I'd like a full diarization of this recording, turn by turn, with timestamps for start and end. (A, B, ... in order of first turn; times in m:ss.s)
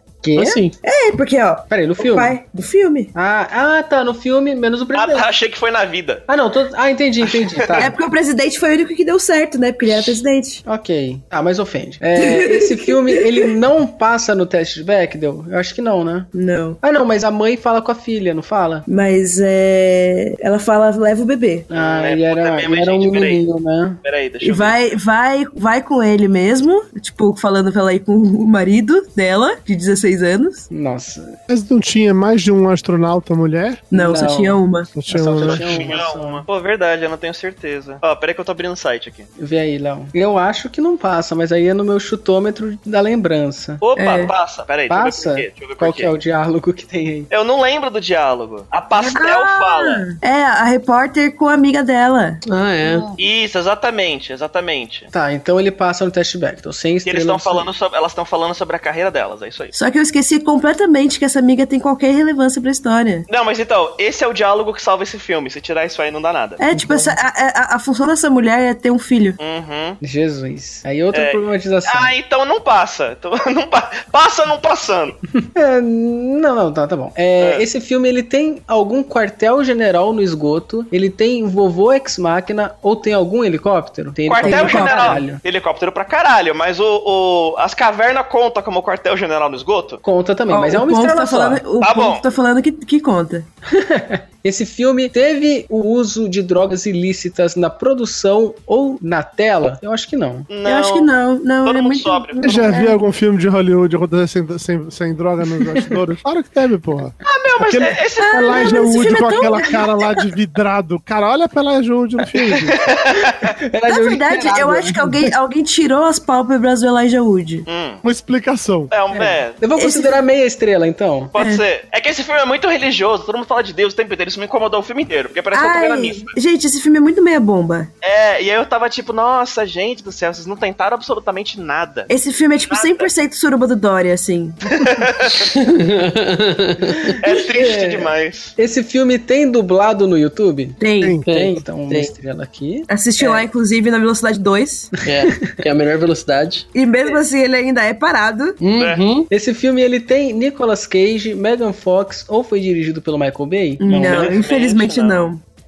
0:00.2-0:00.6 A
0:00.4-0:00.7 B
0:00.8-0:03.1 C
0:01.7-0:02.4 A
0:03.1-0:05.3 A
0:04.9-0:06.2 D
0:06.3-0:07.9 A
0:07.2-0:07.9 D
0:07.8-0:10.6 C
0:10.6-0:18.8 A
0:12.2-0:13.5 C
0:16.3-0:16.8 C
0:18.9-0:21.7 C
0:21.7-0:24.0 A
0:21.7-0:23.4 D
0:24.0-0:24.8 D
0:24.4-0:30.7 C
0:30.7-0:31.4 A
0:31.5-0:33.9 E
0:33.9-0:34.9 C
0:33.9-0:36.4 A
0:35.0-0:35.9 E
0:35.4-0:39.3 D
0:39.4-0:43.8 A
0:43.8-0:46.1 D
0:44.0-0:44.3 C
0:44.9-0:47.3 A
0:47.3-0:50.1 D
0:49.1-0:52.4 C
0:52.4-0:53.1 B
0:53.2-0:55.1 D
0:55.1-0:57.7 A
0:57.0-0:59.7 D
0:59.7-1:03.3 C
1:03.3-1:06.6 D
1:06.6-1:09.4 C
1:06.7-1:07.2 A
1:09.4-1:10.0 D
1:10.0-1:12.1 A
1:11.1-1:15.2 D
1:15.4-1:25.4 A
1:17.4-1:17.6 D
1:24.2-1:30.0 D
1:24.4-1:25.2 C
1:30.0-1:31.6 A
1:30.5-1:33.5 C
1:31.8-1:32.2 D
1:33.7-1:40.5 A
1:40.5-1:41.1 D
1:40.6-1:43.0 C
1:41.6-1:42.7 D
1:42.4-1:52.8 E
1:47.2-1:48.7 D
1:48.2-1:50.2 C
1:52.7-1:53.5 D
1:53.6-1:55.3 A
1:53.9-1:57.6 C
1:57.7-1:58.0 D
1:58.0-1:58.9 E
1:58.9-1:59.6 D
1:59.1-2:01.3 A
1:59.8-2:00.2 C
2:01.3-2:06.4 D
2:01.4-2:01.6 C
2:05.5-2:07.9 C
2:08.0-2:12.1 D
2:12.1-2:14.6 C
2:12.7-2:13.1 D
2:14.8-2:15.5 D
2:15.5-2:17.1 B
2:17.1-2:23.4 A
2:17.2-2:18.5 D
2:20.8-2:21.2 C
2:21.2-2:22.1 B
2:22.9-2:24.9 C
2:25.0-2:26.7 B
2:25.1-2:25.6 A
2:26.7-2:28.6 C
2:28.6-2:29.3 B
2:28.8-2:29.0 D
2:29.3-2:34.4 A
2:33.8-2:35.4 C
2:33.9-2:35.3 D